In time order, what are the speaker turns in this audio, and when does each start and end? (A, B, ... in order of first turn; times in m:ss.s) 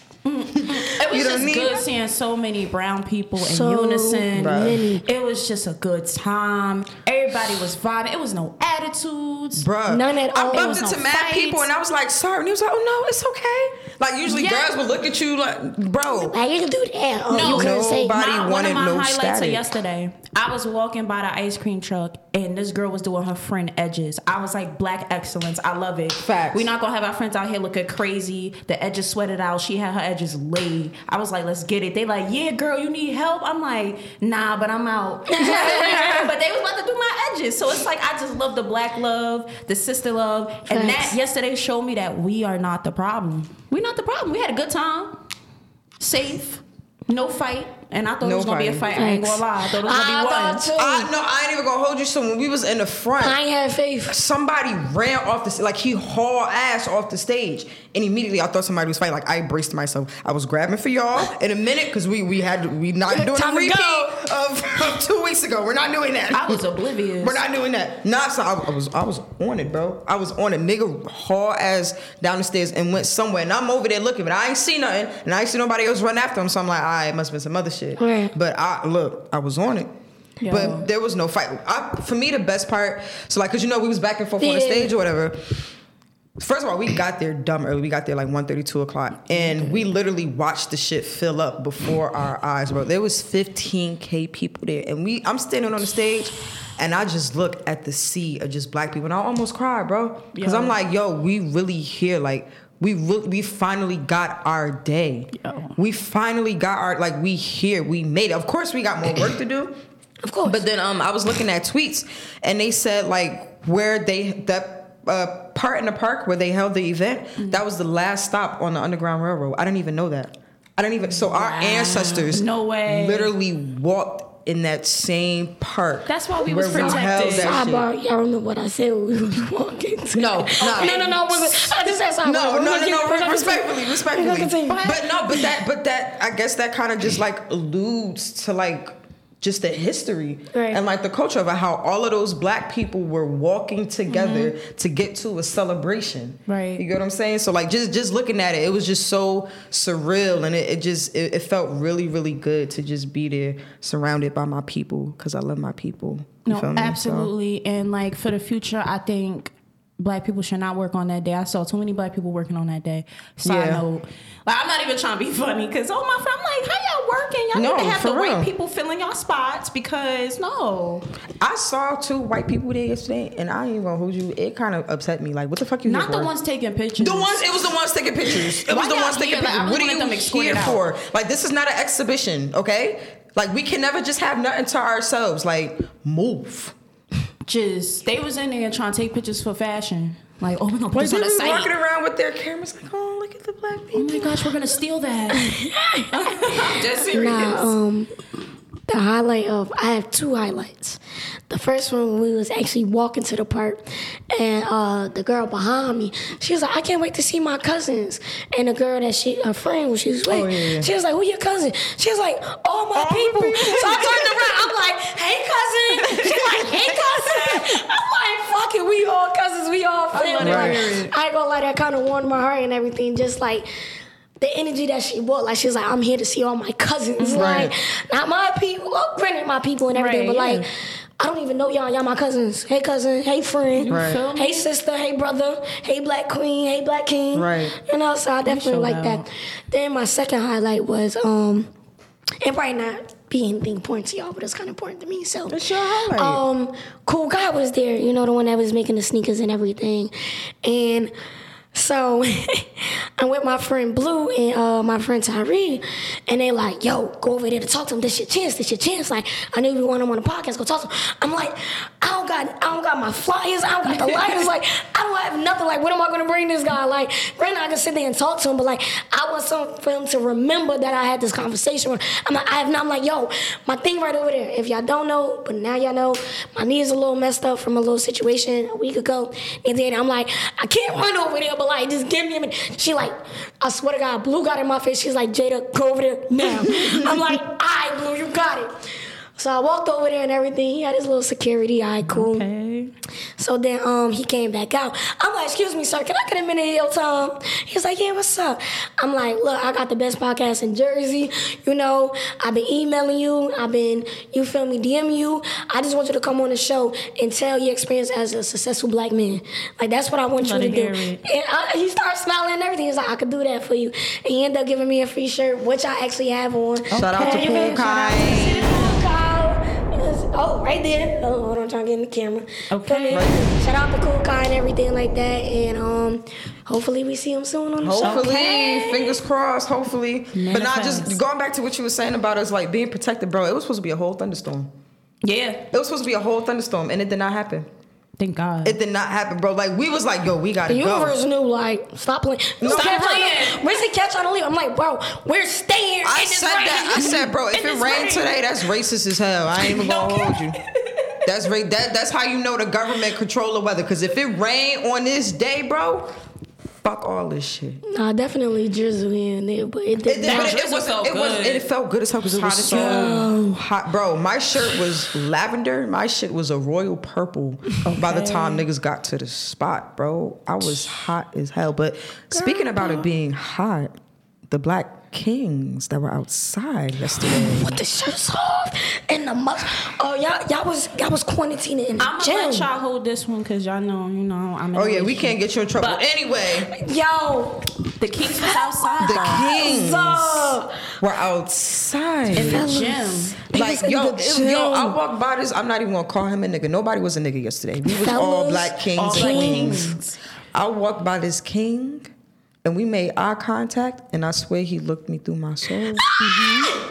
0:00.2-0:09.7 A
0:00.6-0:01.8 B
0:03.4-0:05.0 C
0:04.3-0:04.8 B
0:09.6-0:16.4 B
0:09.9-0:10.8 C
0:10.5-0:11.7 A
0:14.3-0:14.7 A
0:16.1-0:18.2 C
0:17.3-0:45.2 A
0:17.5-0:19.6 B
0:26.2-0:26.7 B
0:35.3-0:36.3 C
0:40.7-0:41.2 C
0:46.0-0:50.6 A
0:48.2-0:48.9 B
0:48.9-0:51.1 C
0:50.8-0:53.4 B
0:53.2-0:54.2 C
0:54.1-1:19.9 B
1:03.1-1:04.2 C
1:06.3-1:07.4 A
1:18.0-1:18.3 C
1:20.4-1:20.9 A
1:20.5-1:25.7 B
1:24.4-1:24.9 C
1:26.4-1:49.8 B
1:40.3-1:40.8 A
1:45.4-1:45.8 A
1:50.2-1:50.6 C
1:50.4-2:07.9 B
2:01.3-2:03.3 A
2:06.1-2:07.6 A
2:06.7-2:15.4 C
2:10.1-2:37.3 B
2:10.6-2:11.2 A
2:14.7-2:15.0 A
2:20.5-2:20.8 C
2:24.1-2:24.5 A
2:26.5-2:26.8 A
2:36.4-2:51.1 A
2:43.4-2:43.8 B
2:47.5-2:48.5 B
2:51.4-2:56.3 B
2:55.8-2:57.5 A
2:57.0-3:06.7 B
2:58.6-3:00.8 A
3:07.4-3:11.7 A
3:10.9-3:14.5 B
3:13.9-3:15.5 A
3:15.3-3:18.1 C
3:16.1-3:17.7 A
3:18.9-3:43.7 C
3:30.3-3:30.9 B
3:32.9-3:34.6 B
3:36.0-3:37.7 A
3:40.1-3:41.1 A
3:40.4-3:41.0 B
3:44.4-3:50.7 C
3:47.2-3:47.7 A
3:47.3-3:47.7 B
3:49.9-3:50.6 A
3:51.2-4:01.7 C
3:53.8-3:54.7 A
3:53.9-3:54.2 B
3:57.3-3:57.8 B
3:58.4-3:59.2 A
4:02.4-4:10.1 C
4:05.5-4:06.4 B
4:10.6-4:11.1 C
4:11.7-4:48.8 C
4:24.0-4:24.4 A
4:46.7-4:47.2 B
4:49.4-4:52.4 C
4:52.0-4:52.9 A
4:53.4-5:29.2 C
5:10.4-5:11.2 A
5:16.9-5:19.0 A
5:16.9-5:18.7 B
5:22.7-5:23.2 A
5:23.1-5:23.5 B
5:27.8-5:34.7 B
5:28.0-5:28.7 A
5:30.3-5:31.2 A
5:35.2-5:35.6 A
5:35.7-5:37.7 B
5:38.2-5:38.8 A
5:38.6-5:41.2 B
5:40.7-5:47.3 C
5:42.6-5:43.3 B
5:42.7-5:43.8 A
5:46.0-5:50.6 B
5:47.1-5:48.4 A
5:49.6-5:51.2 A
5:51.2-5:56.1 B
5:56.8-5:57.8 B
5:57.8-6:00.6 C
6:00.0-6:14.0 B
6:00.2-6:01.6 A
6:02.4-6:03.3 A
6:02.7-6:03.6 C
6:07.8-6:08.6 A
6:12.3-6:13.0 C
6:14.5-6:17.8 B
6:17.2-6:22.7 C
6:22.0-6:26.0 A
6:24.7-6:26.7 B
6:26.7-6:27.7 C
6:28.0-6:29.4 A
6:28.4-6:30.8 C
6:29.0-6:32.7 B
6:32.3-6:35.0 C
6:32.3-6:33.4 A
6:33.5-6:40.0 B
6:37.9-6:40.0 C
6:39.0-6:40.2 A
6:40.5-6:42.1 B
6:42.6-6:46.0 B
6:46.2-6:46.8 A
6:46.4-6:46.7 C